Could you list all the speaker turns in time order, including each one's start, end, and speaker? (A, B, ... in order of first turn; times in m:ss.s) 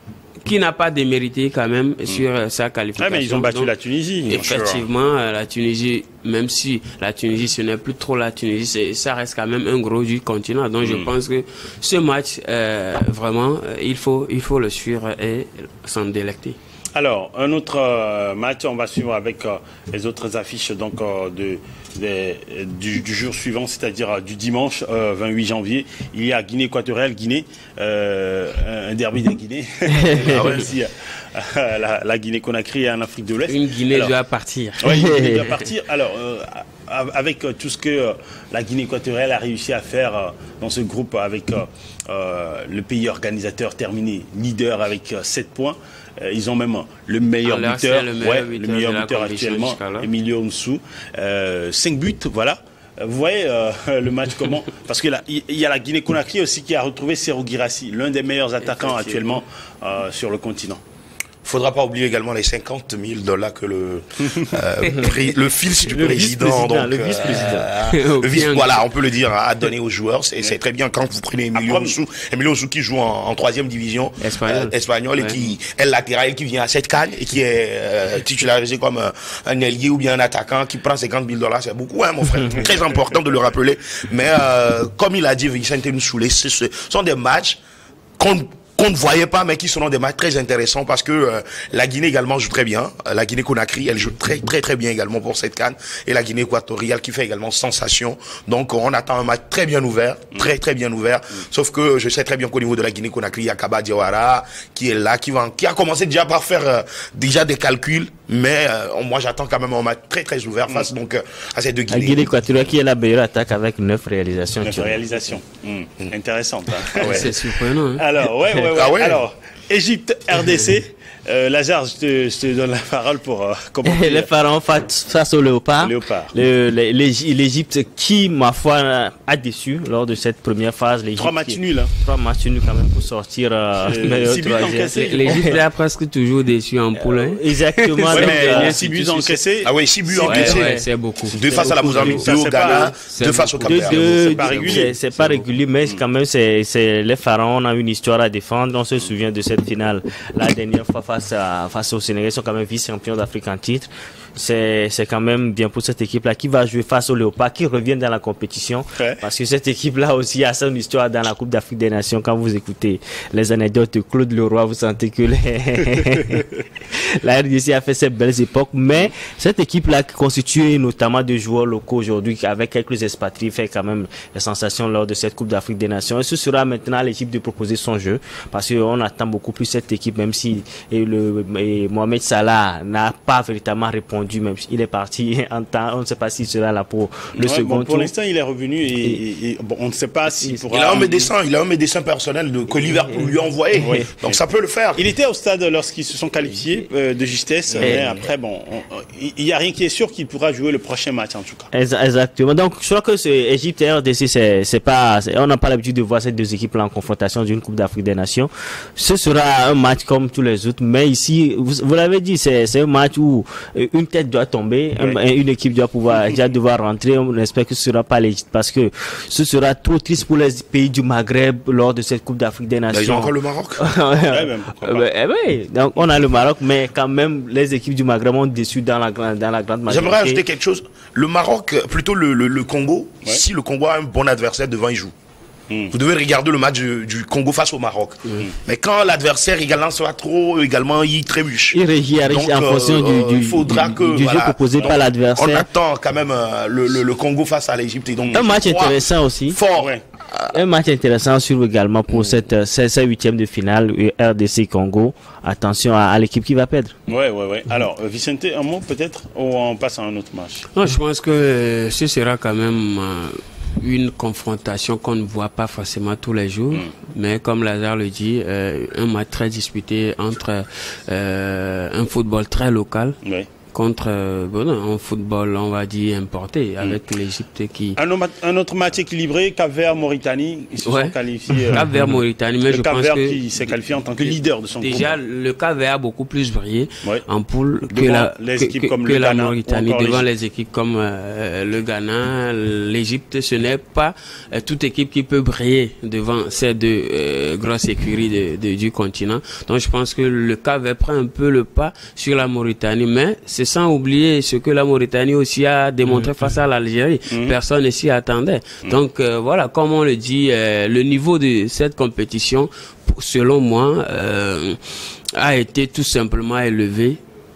0:00.4-0:03.7 A
0:03.0-0:04.8 B
0:04.3-0:16.6 A
0:10.8-0:11.1 B
0:16.9-0:34.1 B
0:29.9-0:30.4 C
0:30.2-0:30.7 D
0:33.5-0:35.0 A
0:34.8-1:00.8 B
0:34.8-0:35.4 C
0:47.4-0:50.1 A
1:01.4-1:27.6 D
1:05.8-1:07.7 C
1:07.5-1:08.9 A
1:11.5-1:12.0 B
1:14.2-1:15.4 A
1:28.2-1:52.3 D
1:51.9-1:55.1 C
1:54.6-1:57.3 B
1:57.0-1:58.0 A
1:57.9-2:04.3 B
1:58.7-1:59.2 D
2:03.8-2:15.6 C
2:05.8-2:06.3 B
2:11.1-2:11.9 B
2:13.8-2:15.5 B
2:14.9-2:18.9 A
2:17.0-2:19.1 C
2:18.1-2:20.7 B
2:19.6-2:24.0 D
2:20.1-2:25.5 A
2:21.5-2:23.0 B
2:23.6-3:08.1 C
2:23.8-2:24.9 B
2:39.0-2:39.2 B
3:07.4-3:11.3 B
3:10.7-3:15.0 D
3:13.8-3:14.4 B
3:13.8-3:14.0 C
3:14.9-3:21.7 B
3:17.8-3:18.2 C
3:21.7-3:50.4 C
3:42.9-3:43.8 D
3:44.2-3:45.1 B
3:49.9-3:55.1 D
3:55.7-3:55.9 B
3:55.9-4:10.6 D
4:01.7-4:05.7 C
4:08.3-4:09.6 C
4:09.8-4:10.0 B
4:10.5-4:16.9 C
4:17.1-4:20.6 B
4:20.7-4:33.2 A
4:33.2-4:33.5 B
4:33.7-4:38.0 A
4:38.0-4:41.8 B
4:40.8-4:41.1 A
4:41.7-4:42.1 C
4:41.7-4:43.4 A
4:42.7-4:45.2 B
4:44.2-5:17.2 A
4:47.9-4:50.2 B
5:07.3-5:07.6 B